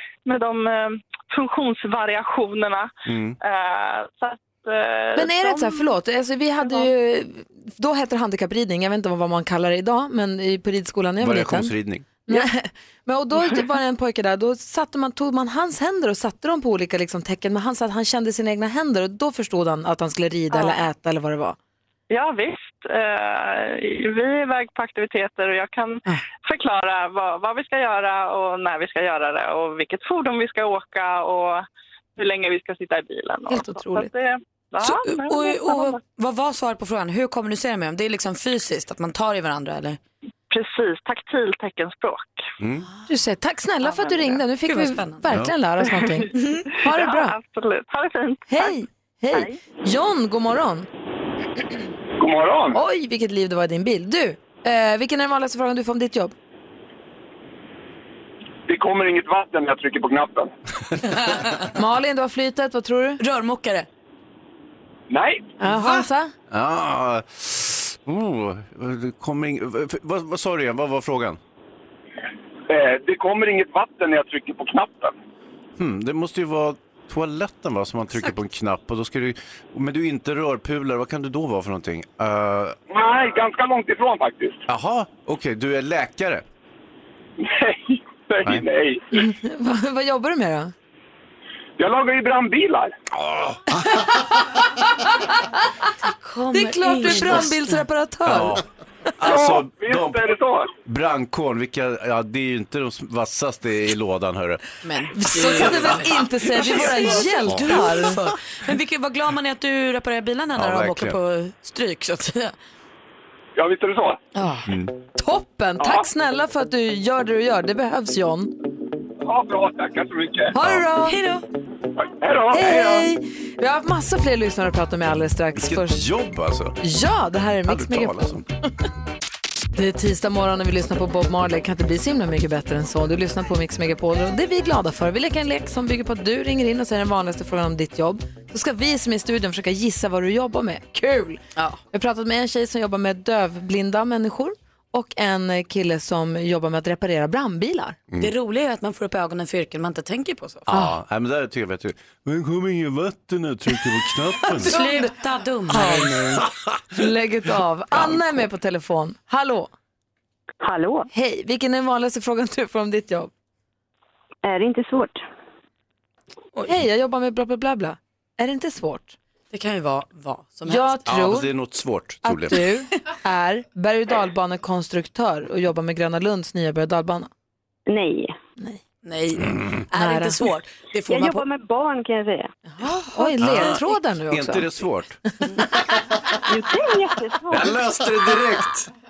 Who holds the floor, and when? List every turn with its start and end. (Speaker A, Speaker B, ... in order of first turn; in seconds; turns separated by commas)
Speaker A: 0.3-2.9, Speaker B: 3.1-3.4, Speaker A: 3.4-5.9, Speaker C: 5.2-11.7, Speaker A: 6.6-6.9, Speaker B: 11.2-12.1, Speaker C: 12.3-21.6, Speaker A: 22.1-31.6, Speaker A: 32.2-36.0, Speaker C: 33.5-34.1, Speaker D: 34.8-40.0, Speaker A: 40.5-42.5, Speaker B: 42.6-42.9, Speaker C: 43.1-47.4, Speaker A: 43.8-44.4, Speaker D: 44.6-45.3, Speaker D: 46.3-46.7, Speaker A: 46.8-48.7, Speaker C: 48.5-50.9, Speaker E: 52.2-52.8, Speaker C: 52.7-56.3, Speaker E: 58.7-60.5, Speaker C: 61.7-63.2, Speaker D: 63.2-63.9, Speaker E: 65.1-65.5, Speaker C: 65.6-66.3, Speaker B: 66.5-71.4, Speaker E: 72.7-75.1, Speaker B: 75.8-82.8, Speaker E: 82.9-84.6, Speaker B: 84.7-86.5, Speaker E: 87.4-89.2, Speaker C: 89.1-90.7, Speaker E: 91.8-92.9, Speaker C: 94.8-95.9, Speaker D: 96.0-97.9, Speaker C: 96.5-98.6, Speaker B: 98.2-98.6, Speaker B: 99.2-100.2, Speaker E: 99.2-100.7, Speaker B: 100.8-104.6, Speaker D: 104.8-112.5, Speaker C: 105.1-108.2, Speaker B: 105.5-106.0, Speaker B: 107.4-108.0, Speaker B: 110.6-111.2, Speaker E: 113.6-114.2, Speaker D: 114.3-114.7, Speaker C: 115.2-118.5, Speaker E: 119.2-120.5, Speaker C: 120.5-121.2, Speaker D: 121.0-121.5, Speaker E: 122.0-123.1, Speaker C: 122.5-126.0, Speaker B: 125.6-126.8, Speaker C: 126.8-128.2, Speaker B: 127.7-128.4, Speaker C: 129.8-148.0, Speaker D: 148.2-150.7, Speaker B: 150.7-154.8, Speaker D: 154.5-156.4, Speaker C: 154.7-155.1, Speaker C: 155.7-156.3, Speaker C: 156.9-159.7, Speaker B: 157.9-158.4, Speaker F: 160.6-161.1, Speaker C: 161.1-163.3, Speaker F: 164.4-165.2, Speaker C: 166.6-169.2, Speaker D: 169.5-171.1, Speaker C: 170.7-171.5, Speaker B: 171.1-172.6, Speaker C: 172.2-177.3, Speaker F: 177.9-178.3, Speaker D: 179.0-181.5, Speaker C: 179.9-180.4, Speaker F: 181.1-182.5, Speaker C: 182.8-184.7, Speaker B: 183.4-185.2, Speaker F: 186.5-187.7, Speaker B: 187.5-188.9